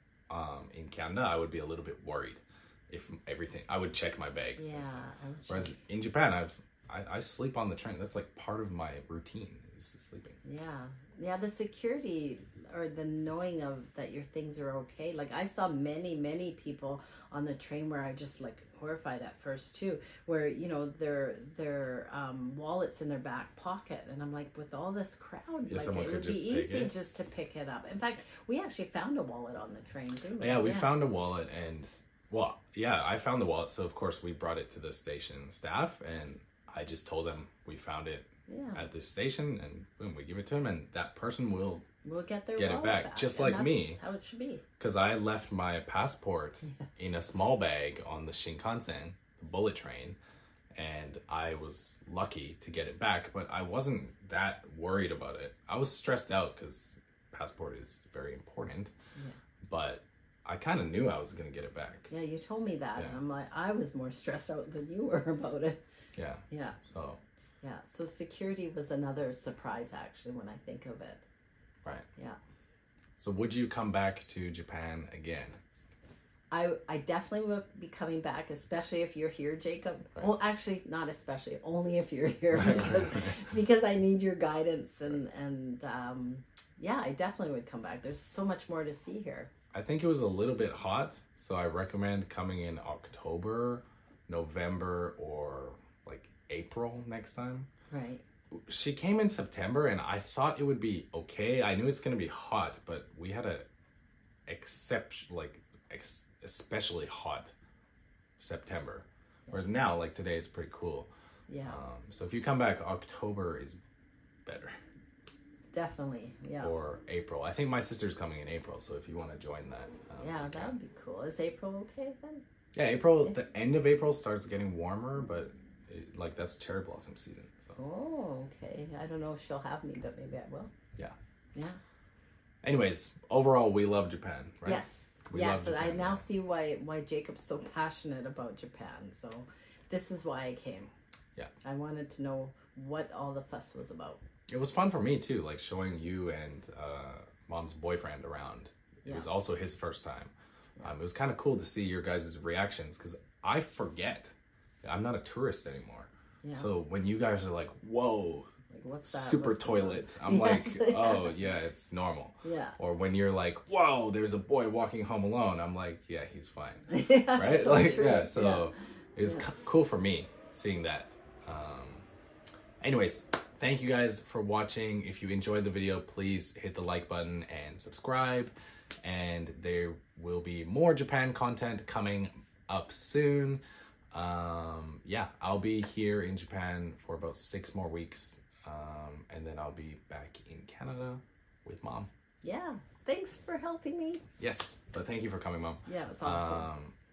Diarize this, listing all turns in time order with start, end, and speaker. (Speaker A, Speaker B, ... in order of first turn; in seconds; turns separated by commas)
Speaker A: 0.3-10.4, Speaker B: 4.6-5.8, Speaker B: 10.4-30.9, Speaker A: 25.7-26.9, Speaker A: 30.4-41.9, Speaker B: 38.5-38.8, Speaker B: 42.0-44.6, Speaker A: 42.6-44.0, Speaker A: 44.8-50.2, Speaker B: 46.7-47.1, Speaker A: 50.7-58.9, Speaker A: 59.6-62.1, Speaker B: 62.1-65.8, Speaker A: 66.2-67.2, Speaker B: 66.5-66.8, Speaker B: 67.6-71.2, Speaker A: 73.2-75.6, Speaker B: 76.5-89.5, Speaker A: 82.5-83.3, Speaker A: 89.7-97.7, Speaker B: 97.9-98.2, Speaker A: 98.6-103.7, Speaker A: 104.5-107.5, Speaker A: 108.4-111.1, Speaker B: 109.5-109.7, Speaker B: 111.5-111.8, Speaker A: 111.7-113.8, Speaker A: 114.5-114.8, Speaker B: 115.7-116.7, Speaker A: 116.6-120.7, Speaker B: 120.2-122.4, Speaker A: 122.7-127.8, Speaker B: 127.8-130.7, Speaker A: 132.6-136.2, Speaker B: 134.7-140.9, Speaker B: 141.6-144.2, Speaker A: 144.5-154.3, Speaker A: 154.8-158.5, Speaker B: 156.4-156.7, Speaker B: 158.7-161.3, Speaker A: 159.1-172.1, Speaker B: 162.4-162.8, Speaker B: 166.9-168.7, Speaker A: 172.8-192.1, Speaker B: 192.4-194.2, Speaker A: 194.4-196.9, Speaker B: 195.9-196.7